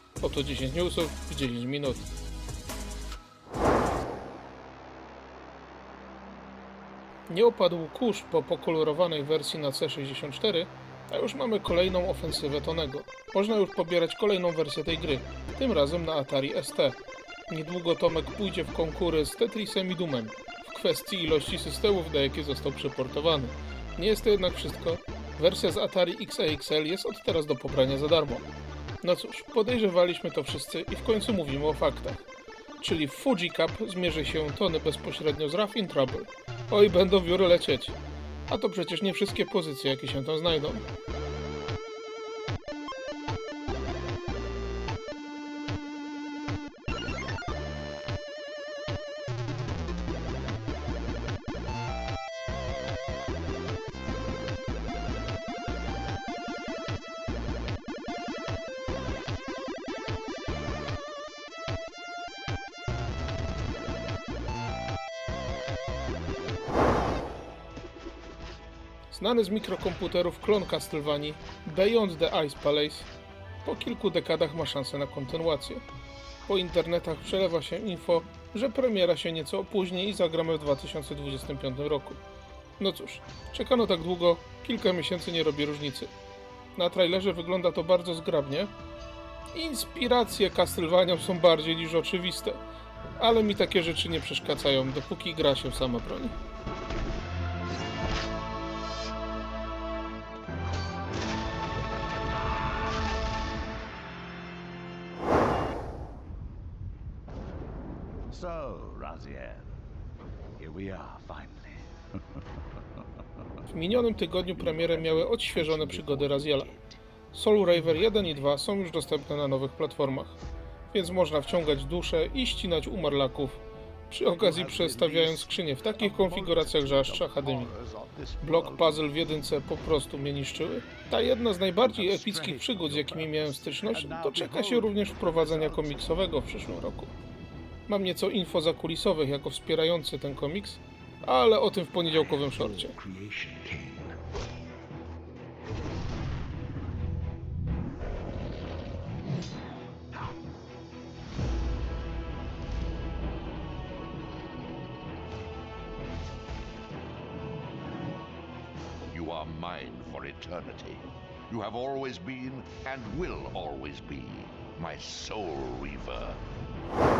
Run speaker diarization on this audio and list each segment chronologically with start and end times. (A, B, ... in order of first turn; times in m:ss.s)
0:00.2-0:02.1 A
0:07.3-0:17.0 A
0:17.5-0:28.4 A
0:29.0-0:32.2 A
0:32.8-0:38.0 A
0:38.5-0:40.8 A
1:09.1-1:13.1 A
1:13.6-1:15.8 A
1:16.4-1:22.2 A
1:22.8-1:26.1 A
1:26.7-1:28.7 A
1:29.5-1:32.6 A
1:33.2-1:36.4 A
1:48.3-1:49.8 B
1:50.6-1:51.9 B
1:53.6-1:56.7 A
1:54.5-1:57.0 B
1:57.3-2:00.4 A
2:00.9-2:07.8 A
2:04.3-2:05.7 B
2:05.9-2:09.1 C
2:08.4-2:17.1 A
2:11.9-2:16.2 B
2:17.9-2:23.0 A
2:22.2-2:24.1 B
2:39.1-2:46.4 C